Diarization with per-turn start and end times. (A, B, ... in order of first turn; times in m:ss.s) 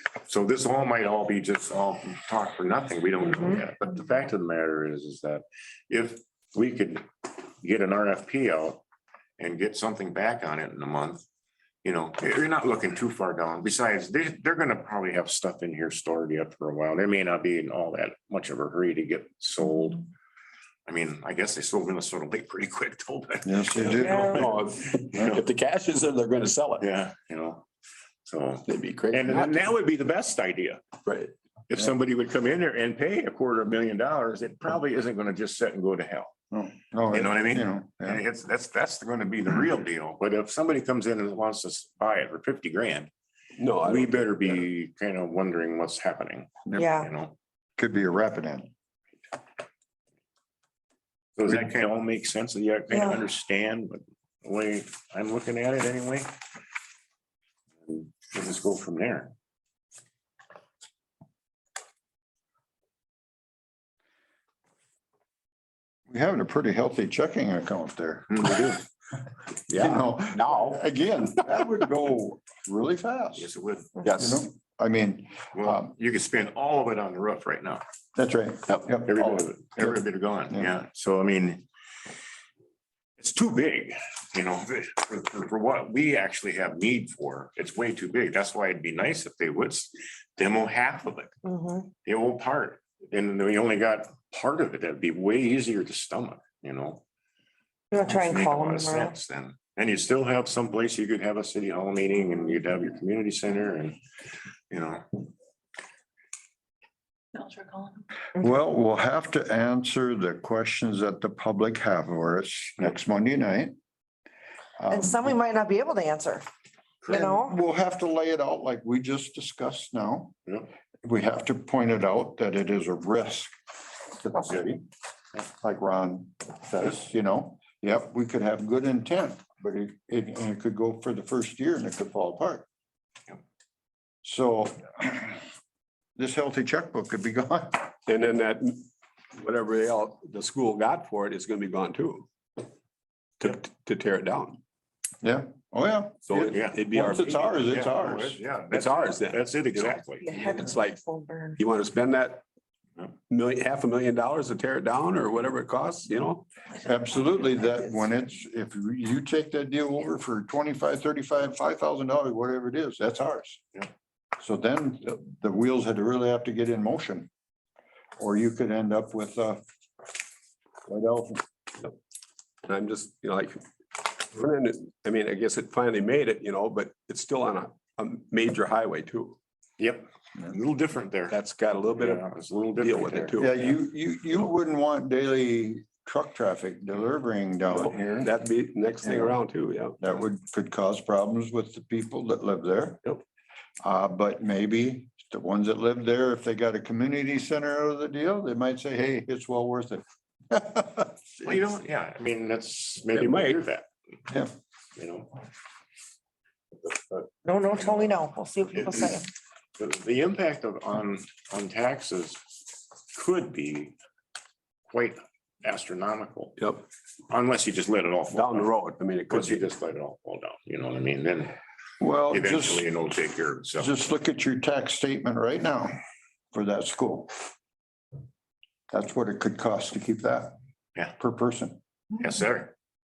0:00.2-0:07.1 A
0:07.6-0:08.8 A
0:09.4-0:11.2 A
0:11.8-0:20.0 A
0:20.8-0:25.4 A
0:23.4-0:24.5 B
0:23.8-0:26.8 C
0:26.8-0:27.6 A
0:28.3-0:30.8 A
0:28.7-0:29.6 C
0:31.0-0:31.3 C
0:31.7-0:36.3 A
0:36.5-0:38.2 B
0:37.1-0:43.1 A
0:43.6-0:44.6 C
0:43.8-0:47.4 A
0:46.8-0:47.1 D
0:47.8-0:48.7 B
0:51.4-0:56.3 A
0:57.8-0:59.3 A
1:06.1-1:08.7 B
1:08.3-1:08.8 A
1:09.7-1:10.8 C
1:09.7-1:13.5 B
1:11.4-1:11.7 C
1:13.4-1:14.0 A
1:14.0-1:14.4 C
1:14.1-1:15.9 B
1:15.5-1:17.8 A
1:18.2-1:20.0 B
1:18.7-1:19.0 C
1:19.0-1:21.6 A
1:23.2-1:31.3 A
1:31.4-1:31.9 D
1:32.0-1:37.0 A
1:37.9-1:39.1 D
1:38.0-1:44.0 A
1:44.7-1:45.2 A
1:48.4-1:53.7 B
1:54.8-1:55.4 B
1:54.9-1:56.4 D
1:57.0-1:57.3 A
1:57.1-2:00.4 B
1:57.1-1:57.5 D
2:01.0-2:04.8 B
2:05.5-2:12.6 B
2:14.2-2:15.4 B
2:16.2-2:17.9 B
2:18.1-2:22.3 C
2:23.4-2:24.6 C
2:25.2-2:28.4 B
2:26.2-2:27.8 C
2:26.5-2:26.9 A
2:27.4-2:30.2 A
2:28.7-2:31.0 C
2:30.2-2:31.6 D
2:31.6-2:32.4 C
2:33.3-2:36.4 C
2:36.7-2:43.6 B
2:44.4-2:47.3 B
2:48.2-2:49.6 B
2:50.9-2:51.4 B
2:52.6-2:59.4 C
2:59.8-3:01.4 A
3:01.3-3:02.2 C
3:01.9-3:03.4 A
3:02.8-3:03.7 C
3:03.4-3:08.3 B
3:07.7-3:10.0 C
3:09.0-3:09.4 B
3:10.0-3:13.0 B
3:13.8-3:21.6 B
3:21.4-3:23.9 A
3:23.1-3:23.6 C
3:25.0-3:25.3 A
3:27.4-3:29.2 D
3:27.8-3:28.1 A
3:28.7-3:29.2 A
3:29.8-3:32.4 A
3:33.1-3:34.0 A
3:34.9-3:36.6 A
3:36.6-3:36.8 C
3:37.3-3:38.7 A
3:38.3-3:39.6 C
3:39.3-3:41.6 A
3:42.0-3:42.8 B
3:42.3-3:43.9 A
3:43.8-3:45.9 B
3:46.5-3:47.4 B
3:48.9-3:50.6 B
3:51.2-3:51.8 B
3:52.2-3:52.7 A